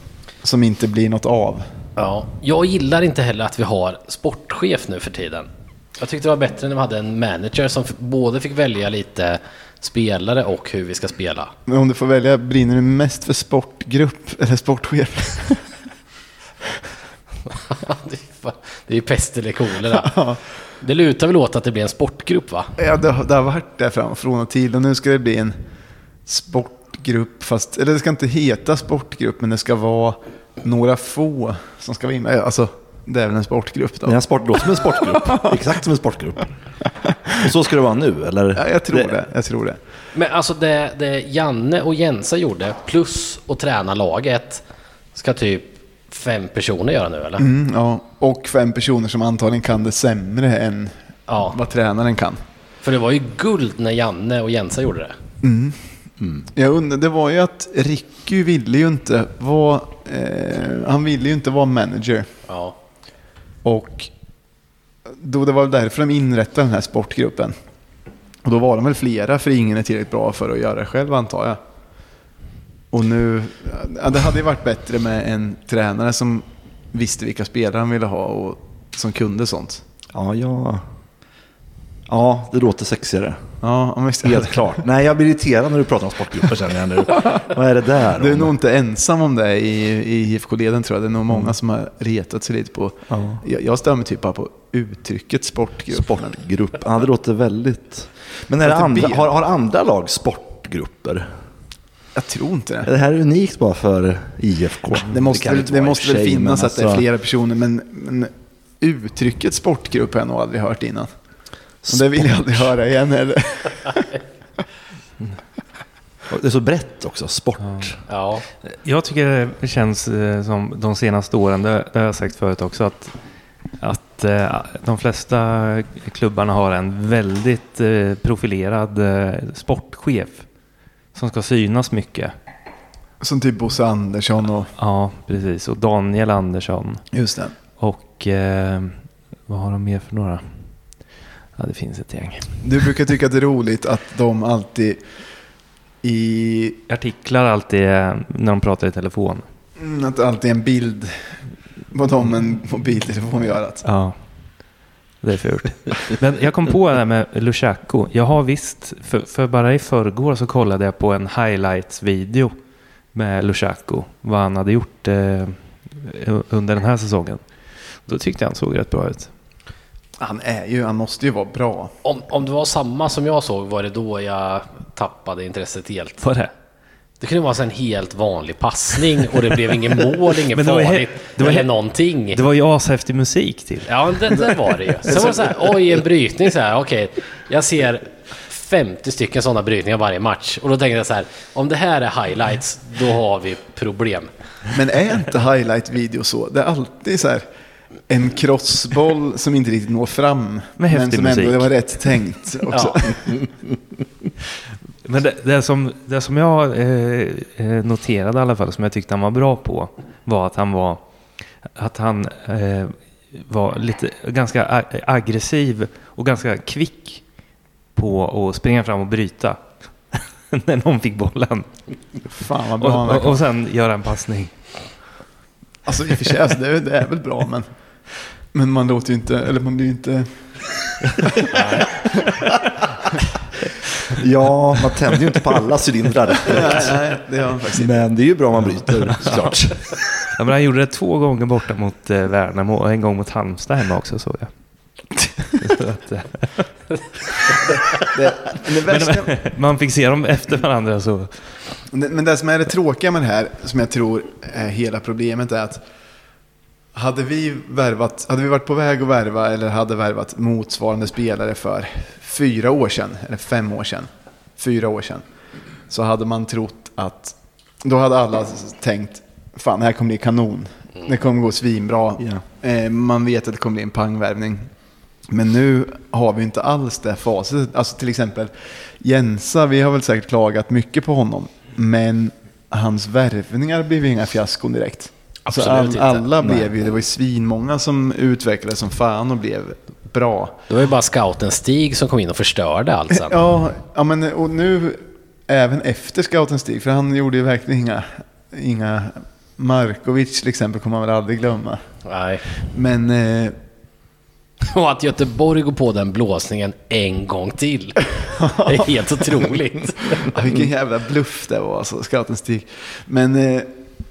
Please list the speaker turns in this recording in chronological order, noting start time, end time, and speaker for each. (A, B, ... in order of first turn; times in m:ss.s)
0:00.4-0:01.7 A
0:02.0-0:11.5 B
0:11.7-0:15.6 A
0:17.5-0:20.2 B
0:20.0-0:20.4 A
0:20.8-0:22.7 B
0:22.8-0:25.6 A
0:26.3-0:34.2 A
0:34.0-0:36.5 C
0:34.8-0:35.6 A
0:37.3-0:39.2 C
0:38.6-0:39.8 A
0:40.1-0:44.6 B
0:45.1-0:47.5 B
0:47.4-0:51.0 A
0:51.3-0:51.6 B
0:51.5-0:52.4 A
0:52.8-0:55.2 B
0:55.4-0:55.8 A
0:56.2-0:56.5 C
0:56.5-1:02.3 A
1:02.5-1:02.8 B
1:03.6-1:04.1 A
1:05.2-1:07.6 A
1:08.4-1:11.6 A
1:12.9-1:19.8 A
1:20.1-1:20.8 C
1:22.1-1:23.4 C
1:23.6-1:24.8 A
1:24.2-1:28.6 C
1:28.1-1:36.4 A
1:31.3-1:31.6 C
1:33.1-1:33.4 C
1:35.9-1:41.3 C
1:38.6-1:39.3 A
1:42.2-1:42.9 A
1:42.8-1:47.1 C
1:45.0-1:51.1 A
1:51.8-1:52.7 C
1:51.9-1:54.2 A
1:56.3-1:58.0 C
1:58.1-1:58.4 B
1:58.7-2:03.2 D
2:03.8-2:10.4 D
2:11.1-2:12.3 D
2:13.2-2:14.7 A
2:14.8-2:17.1 D
2:17.1-2:17.5 A
2:17.8-2:20.6 D
2:21.6-2:22.5 D
2:22.6-2:25.0 A
2:26.0-2:26.8 A
2:26.9-2:29.4 D
2:29.8-2:31.2 A
2:31.9-2:33.8 A
2:33.8-2:34.2 D
2:35.2-2:42.5 D
2:43.1-2:47.4 D
2:48.1-2:49.3 D
2:50.2-2:51.9 A
2:52.0-2:56.2 B
2:56.2-2:56.5 D
2:57.2-3:02.4 B
3:00.5-3:01.7 D
3:02.3-3:04.5 D
3:03.9-3:14.3 B
3:14.7-3:17.4 A
3:18.1-3:23.4 A
3:20.8-3:21.7 D
3:22.7-3:23.0 B
3:25.0-3:31.0 D
3:31.8-3:37.2 D
3:38.0-3:39.6 D
3:40.1-3:41.7 D
3:42.3-3:43.4 A
3:42.8-3:44.5 D
3:45.9-3:47.7 A
3:48.5-3:50.3 A
3:51.1-3:52.5 A
3:51.5-3:51.8 B
3:54.0-3:57.0 C
3:56.4-3:58.0 A
3:57.7-4:00.0 C
4:00.3-4:04.5 D
4:05.5-4:06.7 D
4:08.0-4:09.4 A
4:08.7-4:11.4 D
4:11.9-4:15.8 A
4:17.0-4:25.2 A
4:25.9-4:34.7 A
4:35.3-4:50.6 A
4:45.5-4:46.3 B
4:46.4-4:46.7 C
4:50.7-4:53.4 B
4:53.1-5:01.8 A
5:02.0-5:02.4 B
5:02.7-5:03.6 A
5:04.6-5:10.3 B
5:08.4-5:09.1 A
5:10.1-5:13.7 A